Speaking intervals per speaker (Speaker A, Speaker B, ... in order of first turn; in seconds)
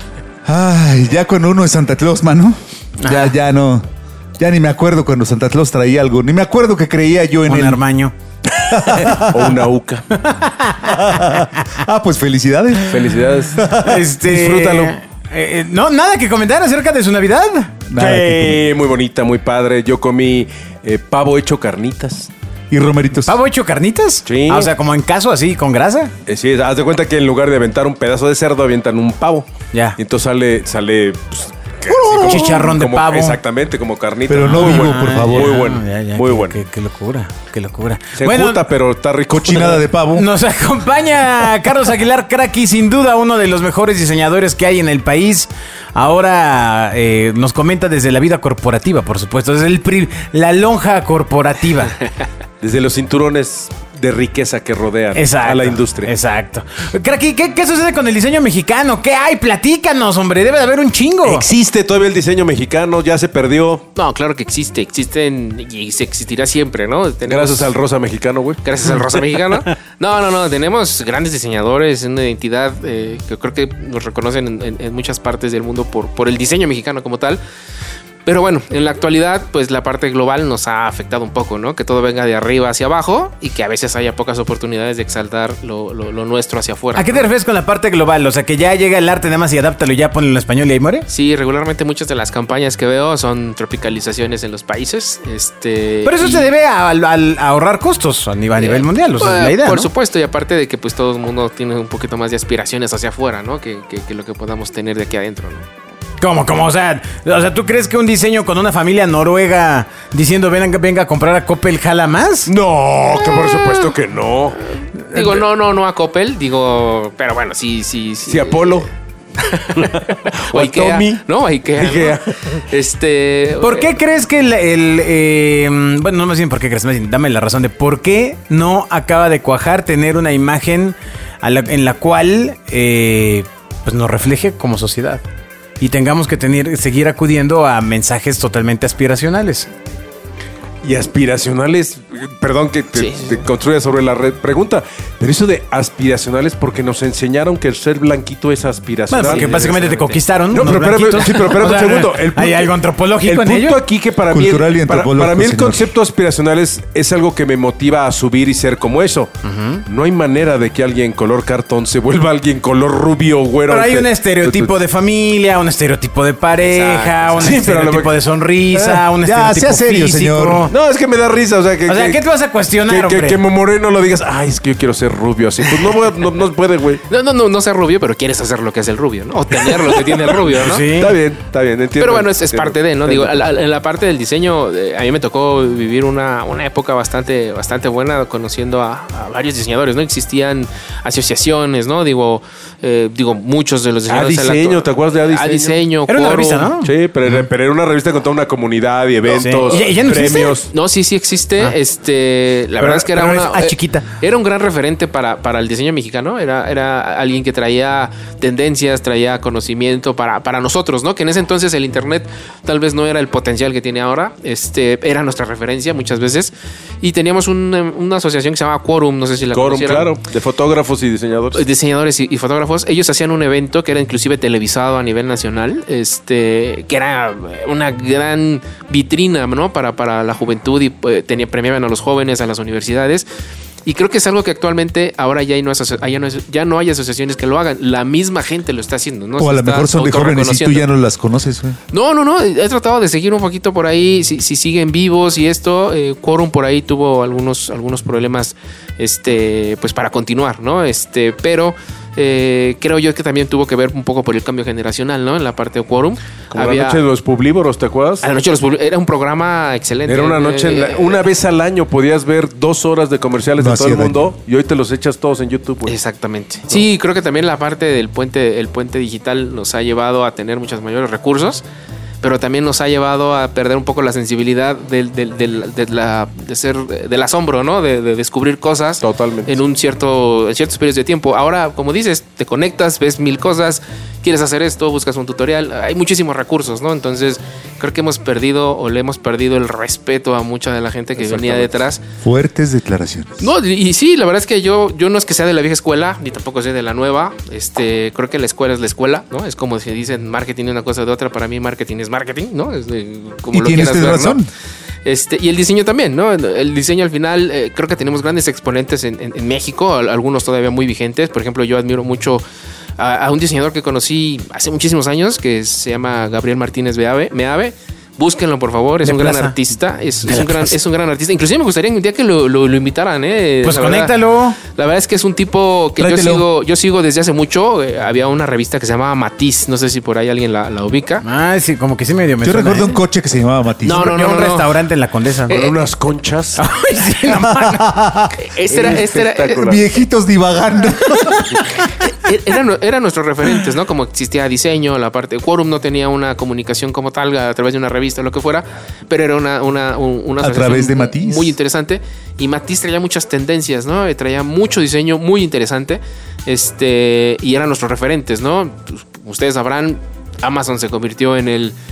Speaker A: 0.5-3.9, 4.4-7.8, 8.6-9.5, 10.8-13.0, 13.6-14.1, 17.9-18.6, 22.7-23.4, 31.9-32.7, 34.3-35.6, 39.4-40.3, 154.3-155.8, 168.7-170.7, 239.4-241.8, 263.6-264.3, 292.2-293.5, 303.5-304.5, 326.0-326.5, 332.4-334.1, 337.3-338.3, 339.7-341.5, 350.4-351.5
Speaker B: 3.0-3.4, 7.5-8.1, 10.2-11.5, 13.7-18.6, 23.2-26.1, 29.7-30.0, 32.2-33.4, 34.4-38.6, 39.5-52.0, 55.1-61.5, 86.9-91.1, 96.0-99.9, 106.2-112.5, 123.6-135.2, 135.8-139.7, 149.1-153.8, 159.4-159.8, 163.7-170.7, 171.9-173.4, 180.5-181.1, 196.1-197.5, 199.3-200.6, 202.8-204.1, 319.0-319.6, 320.2-320.7, 323.6-324.6, 331.2-333.0, 333.9-335.6, 336.6-337.8
Speaker C: 9.2-10.2, 12.9-13.6, 14.2-14.9, 18.4-22.3, 24.3-24.7, 26.3-36.6, 38.2-39.8, 52.6-56.1, 61.2-63.9, 67.3-68.6, 112.5-115.5, 118.2-118.9, 119.7-121.2, 121.8-122.6, 140.8-149.9, 150.5-159.3, 159.9-164.7, 167.4-168.2, 170.7-172.2, 172.9-177.0, 180.9-183.5, 194.1-195.8, 196.8-200.7, 219.5-221.6, 256.5-258.3, 260.1-266.0, 279.0-279.6, 291.3-291.7, 335.5-336.6, 338.7-339.8
Speaker D: 64.0-67.8, 68.6-77.4, 78.2-87.3, 91.1-96.5, 98.6-105.7, 115.1-118.8, 119.4-123.9, 142.9-143.5, 149.1-150.2, 166.6-167.7, 177.1-180.9, 182.0-196.7, 200.7-220.2, 221.5-233.3, 233.8-240.9, 241.9-257.1, 258.2-261.2, 265.9-271.6, 272.2-292.0, 293.4-304.4, 305.1-312.4, 313.0-324.2, 324.7-331.3, 333.8-334.8, 335.5-335.8, 338.4-339.8, 342.0-361.8